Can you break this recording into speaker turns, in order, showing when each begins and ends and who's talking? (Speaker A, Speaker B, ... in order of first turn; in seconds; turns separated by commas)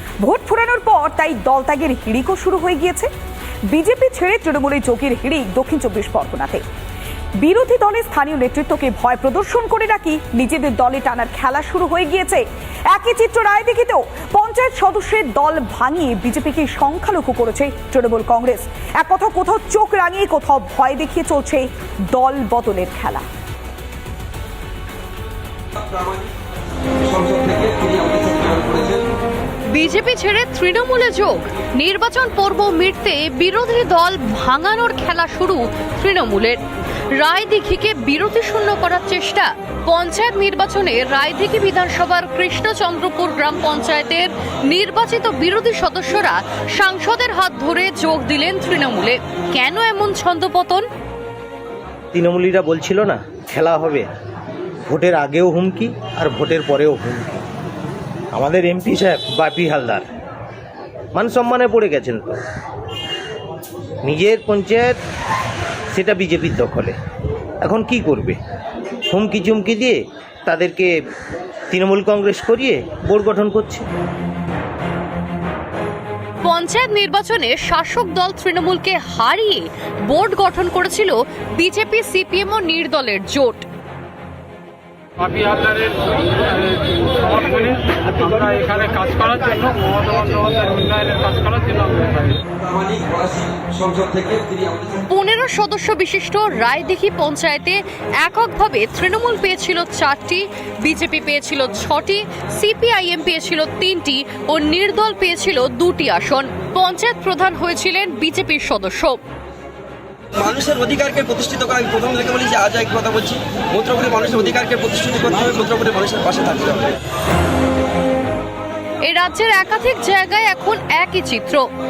Speaker A: 0.2-3.1, Speaker A: 3.7-6.6, Speaker A: 7.4-23.2, Speaker B: 25.8-26.3, Speaker B: 27.0-29.1, Speaker C: 29.7-36.6, Speaker C: 37.1-50.8, Speaker D: 52.1-54.1, Speaker D: 54.9-57.4, Speaker D: 58.3-60.1, Speaker D: 61.1-62.4, Speaker D: 64.0-65.0, Speaker D: 65.9-66.9, Speaker D: 67.6-68.4, Speaker D: 69.1-70.9, Speaker D: 71.7-73.8, Speaker C: 76.4-83.6, Speaker E: 85.2-92.4, Speaker B: 92.5-95.0, Speaker C: 95.1-109.2, Speaker B: 110.3-117.0, Speaker C: 119.0-121.6